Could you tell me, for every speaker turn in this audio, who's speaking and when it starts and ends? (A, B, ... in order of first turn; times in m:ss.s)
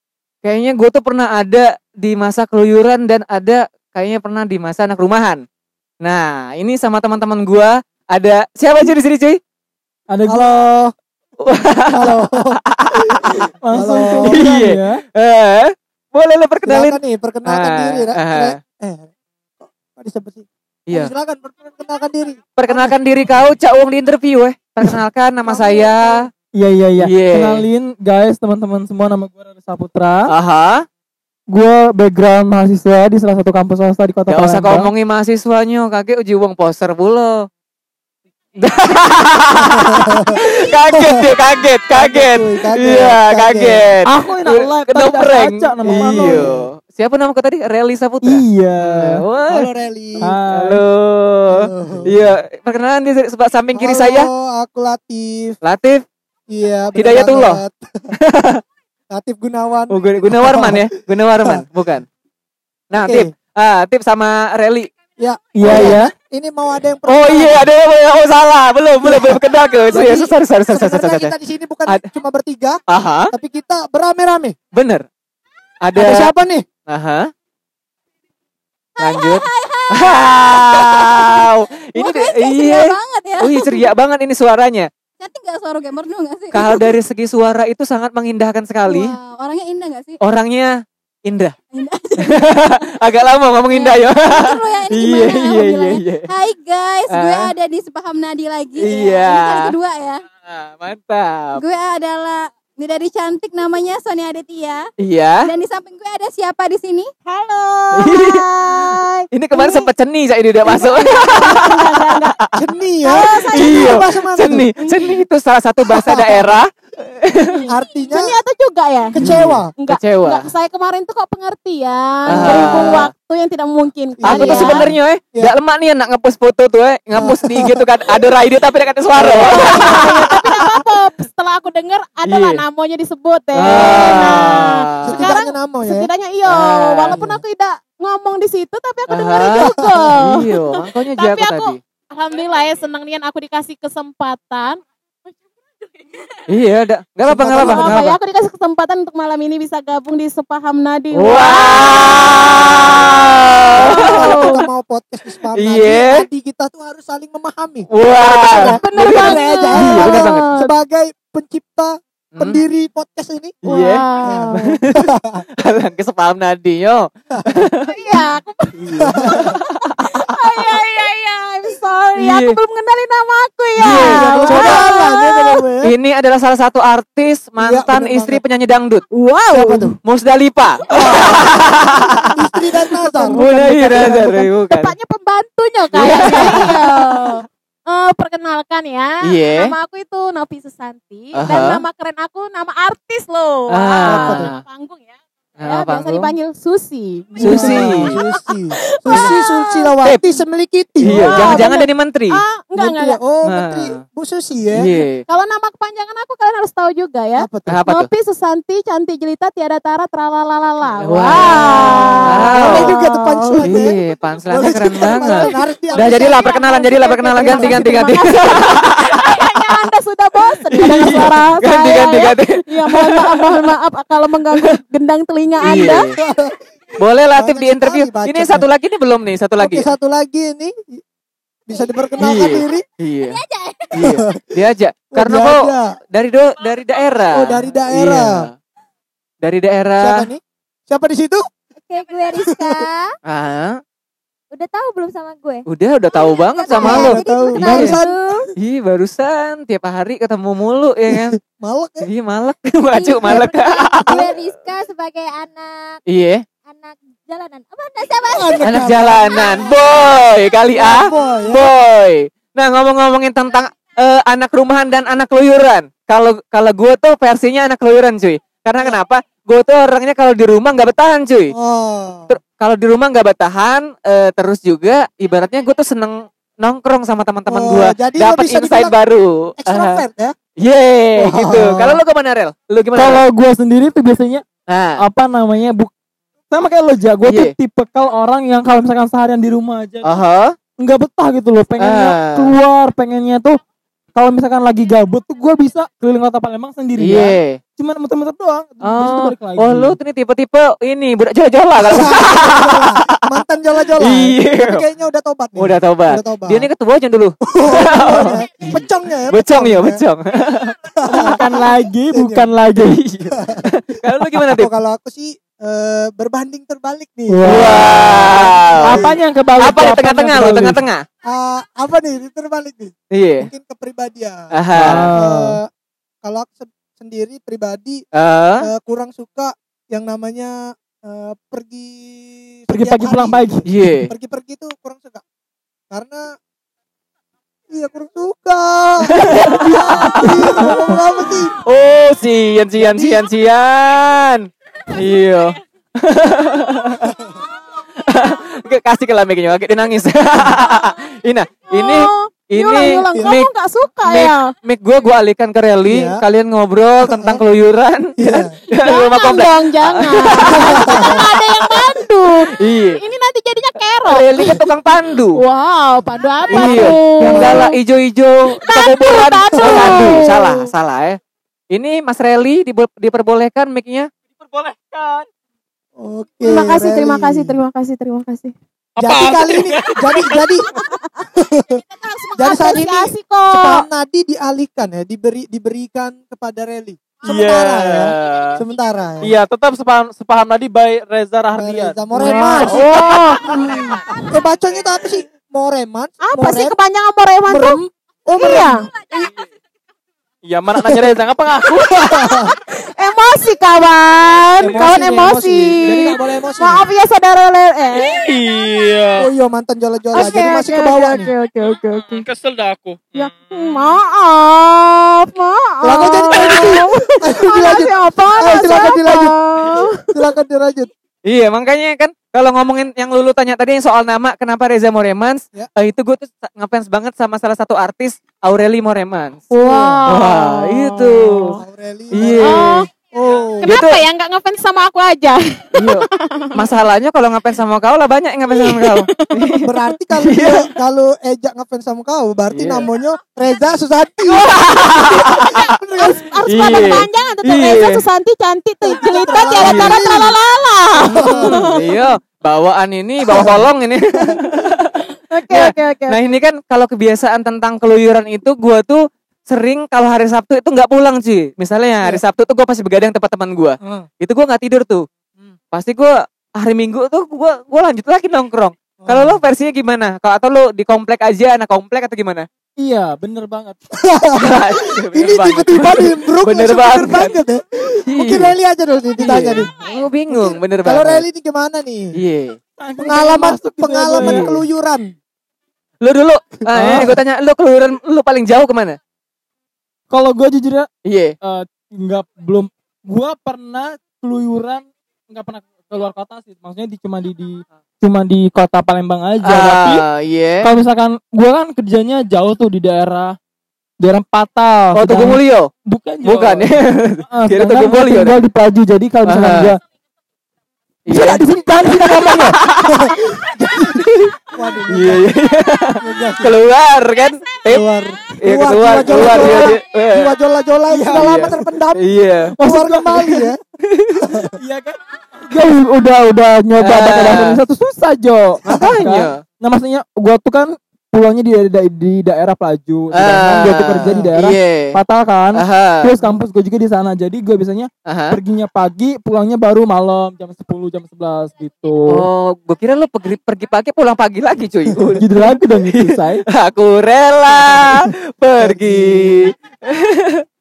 0:00.4-0:05.4 A
0:06.0-0:09.4 A
0:10.1-0:10.6 B
0:10.3-0:10.9 C
0:11.4-0:13.5 A
0:11.9-0:14.4 C
0:13.6-0:15.0 B
0:14.2-0:18.6 A
0:16.6-0:19.1 C
0:19.6-0:22.9 C
0:22.6-0:26.3 A
0:25.4-0:26.2 C
0:26.5-0:30.3 B
0:27.0-0:27.7 A
0:30.3-0:30.8 A
0:31.5-0:34.9 B
0:34.3-0:37.5 A
0:38.6-0:49.7 A
0:39.7-0:41.2 C
0:41.9-0:43.9 C
0:44.0-0:46.5 B
0:45.8-0:46.6 C
0:48.2-0:49.2 B
0:49.5-0:50.4 C
0:50.2-0:50.8 B
0:50.5-0:54.3 A
0:51.5-0:52.1 C
0:53.7-0:55.6 C
0:55.6-0:56.0 A
0:56.5-0:58.1 C
0:56.9-0:57.6 A
0:58.1-0:58.6 A
0:59.1-1:01.6 C
0:59.9-1:02.0 A
1:02.9-1:04.9 A
1:02.9-1:03.3 C
1:05.2-1:07.7 C
1:05.5-1:06.1 B
1:05.6-1:06.0 A
1:07.1-1:11.3 A
1:09.0-1:14.6 C
1:12.9-1:13.3 A
1:14.7-1:15.0 A
1:15.8-1:16.3 A
1:15.9-1:16.6 C
1:16.9-1:17.3 A
1:19.0-1:23.9 D
1:19.0-1:24.9 A
1:25.2-1:26.9 D
1:26.5-1:29.1 A
1:28.8-1:30.2 D
1:30.2-1:30.7 A
1:31.2-1:31.5 A
1:31.7-1:32.8 D
1:32.2-1:36.3 A
1:33.7-1:40.2 D
1:37.1-1:37.5 A
1:38.8-1:39.7 A
1:40.4-1:41.6 A
1:41.6-1:44.9 D
1:45.0-1:45.5 A
1:45.4-1:47.1 D
1:47.2-1:49.9 E
1:47.9-1:48.8 A
1:49.3-1:52.6 A
1:50.6-1:52.4 E
1:52.6-1:54.7 C
1:53.0-1:54.1 E
1:53.5-1:57.6 A
1:54.8-1:55.2 E
1:55.9-1:56.6 C
1:57.5-1:59.2 E
1:57.7-1:58.4 C
1:59.1-1:59.7 C
1:59.2-2:00.5 A
1:59.8-2:04.9 E
2:02.3-2:03.0 C
2:02.3-2:03.1 A
2:04.2-2:05.5 C
2:04.2-2:10.6 A
2:07.1-2:07.8 C
2:09.2-2:10.0 C
2:09.4-2:24.8 E
2:12.2-2:12.6 A
2:13.5-2:15.3 A
2:13.6-2:14.0 C
2:15.0-2:16.1 C
2:16.4-2:17.2 A
2:17.1-2:17.4 C
2:19.1-2:21.8 A
2:19.4-2:20.2 C
2:26.5-2:28.2 A
2:27.2-2:28.0 C
2:27.5-2:34.6 E
2:31.1-2:34.6 A
2:33.7-2:37.9 C
2:35.5-2:36.2 A
2:37.9-2:40.4 A
2:38.3-2:40.7 E
2:38.5-2:43.5 C
2:42.3-2:42.6 A
2:43.6-2:47.9 A
2:43.6-2:44.8 E
2:44.2-2:45.4 C
2:47.8-2:55.6 E
2:49.0-2:49.6 C
2:49.3-2:50.2 A
2:52.2-2:52.6 A
2:53.8-2:55.9 C
2:53.8-2:54.9 A
2:55.8-2:59.0 A
2:57.6-2:58.4 C
2:59.1-3:00.0 E
2:59.5-3:00.0 C
3:00.0-3:02.4 A
3:00.9-3:04.2 C
3:02.0-3:02.3 E
3:02.9-3:19.9 E
3:03.3-3:04.9 A
3:05.9-3:06.8 A
3:06.3-3:07.4 C
3:09.2-3:09.7 A
3:11.3-3:11.8 A
3:13.7-3:14.6 A
3:14.0-3:14.5 C
3:15.6-3:16.3 A
3:17.4-3:18.2 A
3:17.4-3:21.7 C
3:21.0-3:22.4 A
3:21.0-3:23.2 E
3:22.8-3:24.9 C
3:23.4-3:24.0 A
3:24.7-3:25.2 A
3:25.0-3:33.9 E
3:27.4-3:27.8 C
3:27.7-3:28.1 A
3:31.0-3:32.9 A
3:32.3-3:34.0 C
3:33.6-3:39.4 A
3:34.5-3:36.3 C
3:35.1-3:46.2 E
3:37.5-3:37.8 C
3:40.7-3:43.7 A
3:40.8-3:41.3 B
3:45.6-3:46.2 A
3:45.6-3:46.6 C
3:47.0-3:49.9 A
3:47.3-3:48.7 C
3:49.6-3:51.0 C
3:51.7-3:52.8 C
3:52.2-3:53.4 A
3:53.2-3:53.9 D
3:53.9-3:58.5 A
3:54.0-3:54.5 C
3:55.1-3:55.9 C
3:57.3-3:58.5 C
3:59.4-4:00.3 A
4:00.0-4:01.4 C
4:01.9-4:03.2 D
4:02.4-4:02.8 C
4:03.2-4:03.8 A
4:04.5-4:08.5 D
4:05.6-4:08.0 A
4:06.8-4:08.5 C
4:08.6-4:11.4 A
4:11.1-4:12.1 C
4:12.0-4:14.2 A
4:12.9-4:16.0 D
4:13.2-4:14.3 C
4:16.1-4:16.4 A
4:16.6-4:20.0 D
4:18.3-4:19.8 C
4:18.6-4:31.5 A
4:20.7-4:21.6 C
4:31.5-4:32.3 C
4:32.3-4:40.0 A
4:37.4-4:39.0 C
4:39.6-4:40.3 C
4:40.6-4:43.2 A
4:41.2-4:42.0 C
4:42.9-4:44.4 B
4:44.7-4:45.0 A
4:45.0-4:45.9 B
4:46.5-4:50.2 B
4:47.2-4:47.5 A
4:50.0-4:50.6 A
4:50.8-4:53.6 B
4:51.8-4:52.6 A
4:54.1-5:00.0 B
4:57.0-4:57.6 A
4:58.8-5:03.4 A
5:01.8-5:06.7 C
5:04.0-5:04.8 A
5:05.6-5:10.7 A
5:07.4-5:10.0 C
5:10.9-5:12.5 C
5:11.1-5:13.1 B
5:12.8-5:14.7 A
5:13.3-5:13.7 C
5:14.2-5:19.2 C
5:17.3-5:20.8 B
5:17.4-5:21.0 A
5:21.3-5:25.6 C
5:23.1-5:23.5 A
5:24.5-5:25.1 A
5:24.7-5:25.6 B
5:26.2-5:28.0 C
5:28.1-5:28.7 A
5:28.6-5:35.2 C
5:32.7-5:33.6 B
5:33.7-5:34.1 A
5:35.9-5:36.2 C
5:37.7-5:41.5 C
5:39.0-5:40.7 A
5:39.5-5:41.0 B
5:41.6-5:47.1 A
5:42.8-5:43.2 C
5:47.0-5:47.4 C
5:48.0-5:53.5 A
5:51.7-5:54.5 E
5:54.0-6:02.0 A
5:55.9-5:56.2 C
5:57.0-5:57.4 C
5:58.2-5:58.5 C
5:58.8-6:04.6 E
6:00.6-6:01.2 C
6:02.5-6:03.0 A
6:04.0-6:05.4 A
6:05.3-6:07.8 E
6:06.5-6:07.6 C
6:06.5-6:11.2 A
6:08.6-6:10.7 E
6:09.6-6:10.1 C
6:11.7-6:14.1 A
6:14.4-6:15.3 B
6:16.0-6:17.5 C
6:16.4-6:18.5 E
6:19.0-6:20.6 B
6:19.0-6:20.7 C
6:20.6-6:23.8 E
6:21.3-6:21.8 C
6:22.4-6:29.3 C
6:27.2-6:28.6 B
6:28.0-6:28.6 A
6:29.2-6:33.8 B
6:31.5-6:32.9 C
6:32.2-6:34.2 E
6:33.6-6:36.7 C
6:36.2-6:39.2 E
6:37.5-6:38.9 C
6:40.4-6:42.2 B
6:41.6-6:48.3 E
6:41.9-6:42.5 C
6:44.6-6:46.8 C
6:47.9-6:49.3 B
6:49.2-6:51.3 C
6:50.1-6:52.3 E
6:52.0-6:53.9 B
6:53.1-7:00.1 E
6:55.8-6:59.4 C
7:00.1-7:00.9 C
7:01.2-7:09.4 A
7:09.5-7:11.5 E
7:09.5-7:10.0 C
7:10.1-7:11.5 A
7:11.5-7:13.8 C
7:12.1-7:12.8 A
7:12.4-7:12.9 E
7:13.6-7:16.6 E
7:13.6-7:14.0 A
7:15.7-7:20.7 A
7:18.5-7:19.6 E
7:19.6-7:24.6 C
7:22.5-7:22.9 A
7:24.2-7:31.9 E
7:24.7-7:25.6 A
7:25.5-7:26.3 C
7:26.4-7:28.0 A
7:28.8-7:30.3 C
7:29.6-7:30.0 A
7:31.0-7:31.6 C
7:31.2-7:45.0 A
7:33.3-7:34.5 C
7:35.3-7:36.3 E
7:43.8-7:44.1 C
7:45.7-7:52.4 A
7:49.0-7:49.4 C
7:52.8-7:53.8 B
7:53.9-7:59.7 C
7:54.4-7:57.3 A
7:58.1-7:58.5 A
7:59.2-8:01.2 A
8:00.3-8:02.1 C
8:02.1-8:02.6 A
8:02.8-8:04.5 B
8:03.0-8:05.1 C
8:04.2-8:04.6 A
8:06.0-8:09.0 A
8:06.7-8:07.2 B
8:10.1-8:10.9 B
8:11.0-8:11.3 A
8:11.4-8:20.0 B
8:19.4-8:20.7 A
8:20.6-8:23.3 B
8:24.0-8:26.8 B
8:24.9-8:25.7 A
8:26.2-8:28.4 A
8:27.3-8:29.8 B
8:29.2-8:29.7 A
8:31.1-8:33.2 A
8:31.1-8:32.6 B
8:32.8-8:35.2 C
8:33.8-8:34.4 A
8:34.9-8:37.8 A
8:36.0-8:36.6 C
8:37.6-8:43.6 C
8:38.4-8:40.3 A
8:39.1-8:39.8 B
8:40.9-8:41.4 B
8:41.1-8:42.6 A
8:42.6-8:43.4 B
8:43.8-8:44.3 A
8:44.2-8:44.6 C
8:44.6-9:02.3 B
8:46.8-8:47.6 A
8:48.6-8:49.4 A
8:53.1-8:55.0 A
8:55.5-8:56.2 A
8:58.0-8:58.4 A
9:02.1-9:10.4 A
9:05.0-9:06.4 B
9:08.6-9:09.5 C